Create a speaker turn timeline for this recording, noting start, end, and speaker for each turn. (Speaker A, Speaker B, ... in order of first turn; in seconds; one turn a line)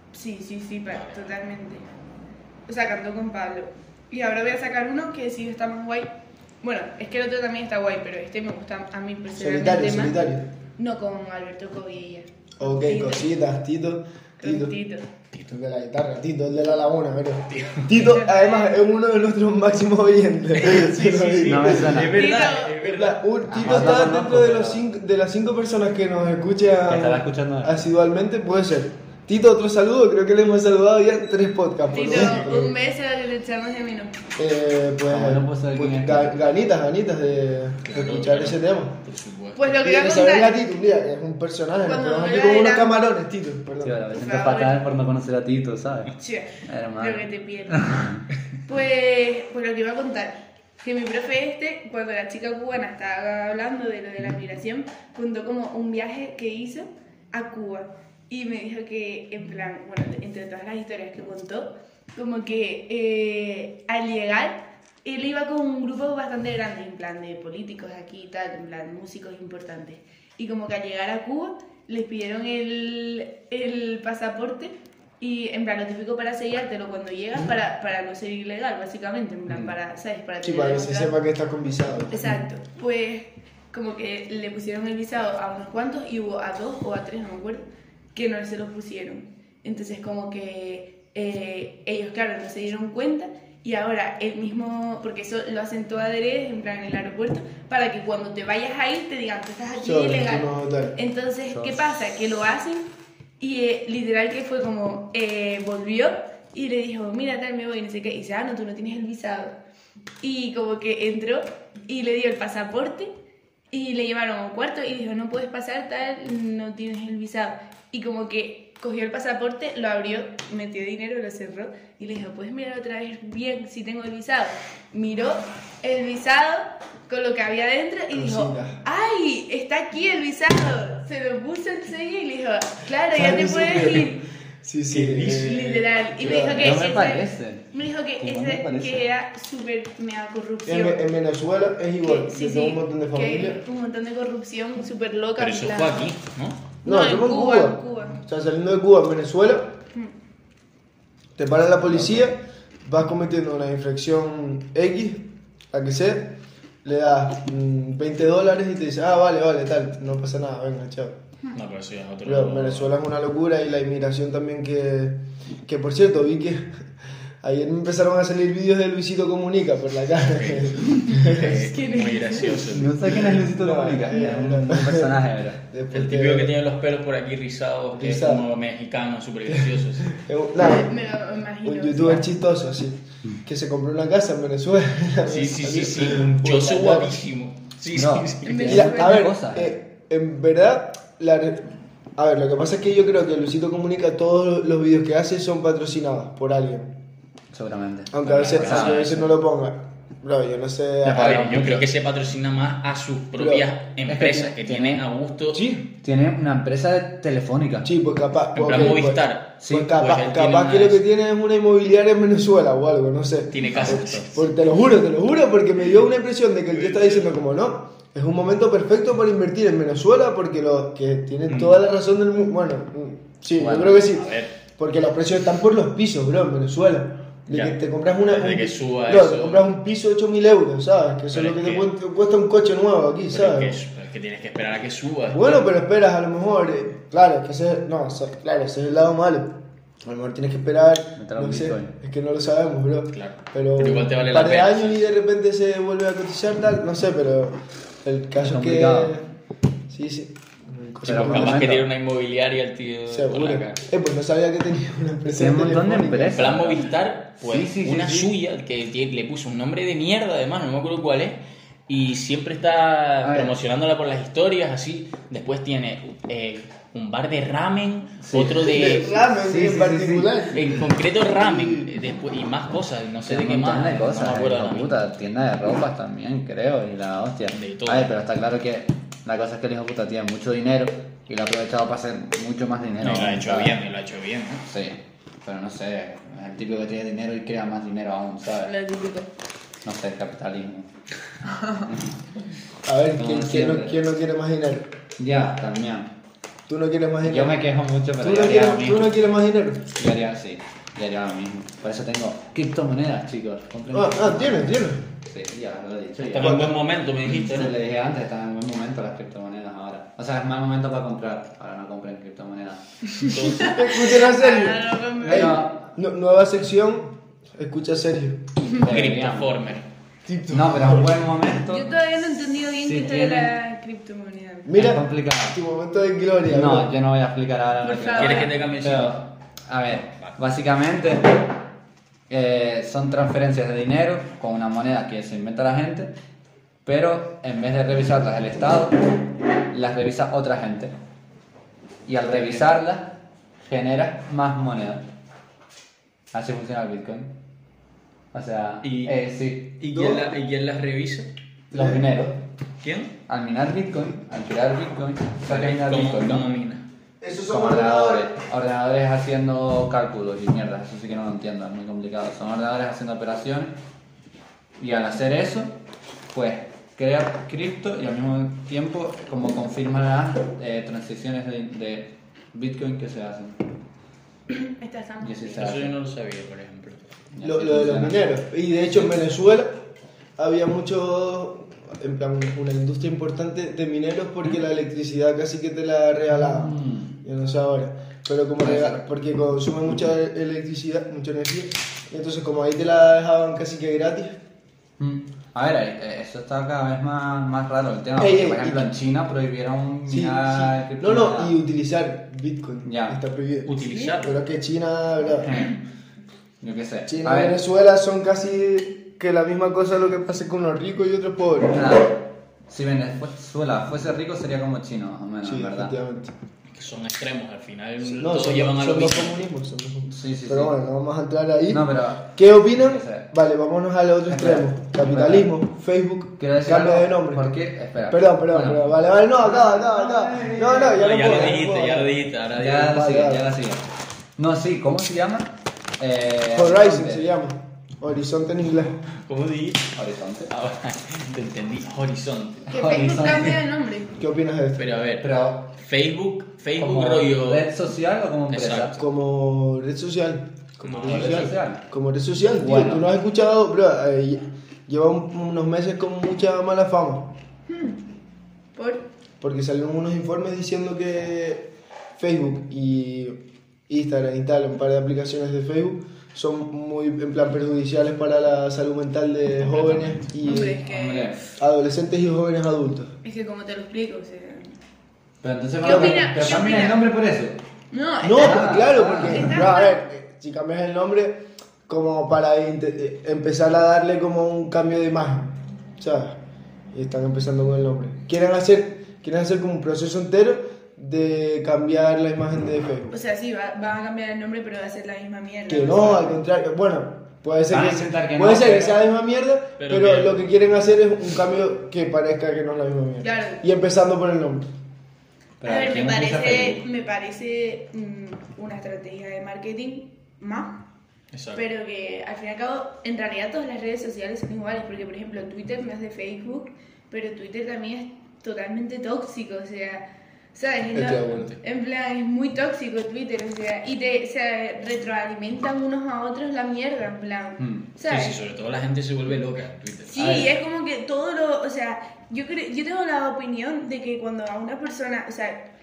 Speaker A: 0.1-1.9
Speaker B: 0.9-1.3
Speaker A: 2.7-6.1
Speaker A: 6.6-10.2
Speaker C: 9.4-10.5
Speaker A: 10.8-13.3
Speaker C: 12.6-14.7
Speaker A: 14.4-15.1
Speaker C: 15.5-32.8
Speaker B: 17.5-17.9
Speaker A: 17.9-18.7
Speaker B: 20.6-24.0
Speaker D: 21.4-22.3
Speaker A: 22.1-22.8
Speaker D: 23.5-24.8
Speaker D: 26.9-27.9
Speaker A: 31.9-34.2
Speaker C: 34.4-39.0
Speaker D: 35.1-36.5
Speaker B: 37.8-39.7
Speaker A: 39.5-40.6
Speaker C: 39.8-44.0
Speaker A: 41.9-43.1
Speaker D: 43.8-46.1
Speaker A: 44.1-44.8
Speaker A: 46.2-48.0
Speaker D: 46.6-48.2
Speaker A: 48.7-81.1
Speaker C: 80.4-82.3
Speaker A: 82.1-102.9
Speaker C: 99.8-101.0
Speaker D: 101.5-101.9
Speaker A: 103.4-109.5
Speaker A: 110.2-113.1
Speaker A: 113.7-134.2
Speaker C: 128.1-128.8
Speaker C: 133.1-136.8
Speaker B: 135.0-135.3
Speaker A: 135.2-141.0
Speaker D: 136.3-137.7
Speaker D: 138.2-139.0
Speaker C: 140.7-143.6
Speaker A: 142.0-146.1
Speaker B: 145.4-146.6
Speaker A: 146.8-148.2
Speaker C: 146.8-149.7
Speaker C: 151.4-156.3
Speaker C: 156.8-161.2
Speaker B: 161.5-162.9
Speaker C: 162.2-166.8
Speaker C: 167.4-171.7
Speaker B: 170.2-173.3
Speaker A: 171.5-172.6
Speaker D: 172.7-175.6
Speaker C: 173.0-176.5
Speaker B: 175.9-180.2
Speaker C: 177.9-178.4
Speaker C: 179.5-180.9
Speaker A: 180.6-182.3
Speaker C: 181.6-187.2
Speaker B: 185.2-188.7
Speaker D: 187.9-189.8
Speaker A: 188.4-189.3
Speaker C: 188.7-196.9
Speaker D: 197.5-199.3
Speaker C: 198.1-201.6
Speaker B: 198.3-199.2
Speaker D: 201.0-201.9
Speaker B: 201.1-205.6
Speaker C: 203.4-203.7
Speaker D: 204.1-207.9
Speaker C: 207.8-233.8
Speaker B: 208.6-211.0
Speaker D: 209.6-209.9
Speaker B: 213.5-214.5
Speaker D: 213.7-214.0
Speaker B: 216.7-217.4
Speaker B: 221.5-221.8
Speaker D: 223.6-224.1
Speaker B: 224.0-224.5
Speaker B: 228.2-229.7
Speaker B: 231.3-231.9
Speaker B: 233.3-235.7
Speaker C: 235.3-249.3
Speaker D: 241.2-241.9
Speaker B: 243.1-245.1
Speaker D: 248.4-249.2
Speaker C: 249.9-251.7
Speaker D: 251.1-251.9
Speaker B: 251.1-253.8
Speaker C: 253.1-256.6
Speaker D: 255.4-258.3
Speaker B: 256.3-269.2
Speaker D: 263.2-263.5
Speaker D: 268.2-270.4
Speaker C: 268.6-271.9
Speaker B: 270.5-275.0
Speaker D: 273.3-283.8
Speaker B: 277.5-278.1
Speaker B: 283.0-284.6
Speaker D: 284.6-288.7
Speaker A: 288.6-289.3
Speaker D: 289.8-290.9
Speaker D: 291.4-292.2
Speaker C: 292.9-294.9
Speaker D: 293.2-294.0
Speaker D: 295.2-296.1
Speaker C: 296.7-297.6
Speaker D: 297.2-299.1
Speaker C: 298.2-299.9
Speaker D: 300.0-306.8
Speaker C: 303.9-305.0
Speaker B: 306.2-307.8
Speaker C: 306.4-306.8
Speaker D: 307.3-312.8
Speaker B: 313.2-313.7
Speaker A: 313.2-315.6
Speaker C: 313.6-318.4
Speaker D: 315.2-315.8
Speaker B: 318.7-319.9
Speaker D: 318.8-319.5
Speaker C: 320.3-321.2
Speaker D: 320.5-322.0
Speaker A: 321.7-324.8
Speaker D: 322.7-323.5
Speaker C: 324.7-326.9
Speaker D: 324.7-325.6
Speaker D: 326.5-331.5
Speaker A: 327.8-328.6
Speaker B: 328.1-329.2
Speaker B: 330.0-330.4
Speaker D: 332.3-336.1
Speaker D: 336.9-339.2
Speaker D: 339.7-340.9
Speaker D: 342.1-345.1
Speaker B: 342.3-342.6
Speaker D: 346.3-347.3
Speaker D: 348.3-349.7
Speaker B: 348.8-349.2
Speaker B: 349.8-351.3
Speaker C: 349.9-350.2
Speaker C: 351.7-352.3
Speaker D: 351.7-352.4
Speaker B: 352.8-353.1
Speaker D: 353.3-356.5
Speaker B: 355.5-356.8
Speaker C: 357.2-358.3
Speaker D: 357.5-363.8
Speaker D: 364.8-365.8
Speaker D: 366.3-373.6
Speaker A: 374.5-375.7
Speaker D: 375.2-375.9
Speaker B: 375.6-377.0
Speaker D: 377.3-378.2
Speaker C: 377.4-379.7
Speaker D: 378.9-379.2
Speaker C: 380.4-394.4
Speaker D: 386.3-387.1
Speaker D: 388.6-389.0
Speaker D: 395.0-401.5
Speaker C: 398.2-398.9
Speaker C: 400.1-405.7
Speaker D: 402.9-403.2
Speaker B: 403.7-404.4
Speaker A: 403.9-404.1
Speaker D: 405.4-405.8
Speaker D: 406.6-407.6
Speaker C: 407.1-411.8
Speaker D: 411.7-412.2
Speaker D: 412.7-415.9
Speaker C: 415.4-416.3
Speaker B: 416.7-419.5
Speaker C: 418.1-427.5
Speaker D: 420.1-420.7
Speaker D: 421.7-423.3
Speaker D: 424.3-425.5
Speaker D: 426.4-431.5
Speaker C: 428.1-433.4
Speaker B: 430.8-433.0
Speaker D: 432.6-433.8
Speaker D: 434.4-437.3
Speaker C: 436.5-439.0
Speaker B: 439.0-439.9
Speaker D: 439.9-440.5
Speaker B: 440.5-442.7
Speaker D: 442.7-443.6
Speaker A: 442.7-444.1
Speaker C: 444.2-444.9
Speaker B: 444.8-447.6
Speaker D: 445.2-445.7
Speaker D: 446.8-449.0
Speaker B: 448.5-449.0
Speaker C: 449.0-457.3
Speaker B: 450.8-451.5
Speaker D: 451.0-451.8
Speaker D: 452.6-453.1
Speaker A: 457.7-458.0
Speaker A: 458.8-459.0
Speaker C: 459.4-470.8
Speaker B: 469.7-470.3
Speaker A: 470.4-471.5
Speaker D: 470.4-471.4
Speaker C: 471.6-473.1
Speaker A: 473.2-474.8
Speaker D: 475.4-477.6
Speaker A: 475.8-477.0
Speaker C: 475.8-476.3
Speaker A: 477.9-480.0
Speaker C: 478.2-486.4
Speaker D: 478.4-479.6
Speaker C: 486.9-493.1
Speaker A: 493.1-496.4
Speaker C: 495.7-504.6
Speaker D: 497.7-499.0
Speaker B: 499.8-500.4
Speaker A: 503.2-503.6
Speaker D: 505.6-506.8
Speaker A: 505.6-510.8
Speaker B: 511.3-511.6
Speaker A: 511.6-528.4
Speaker C: 520.9-521.5
Speaker D: 527.6-527.9
Speaker B: 528.1-530.4
Speaker A: 530.1-535.6
Speaker D: 530.2-530.5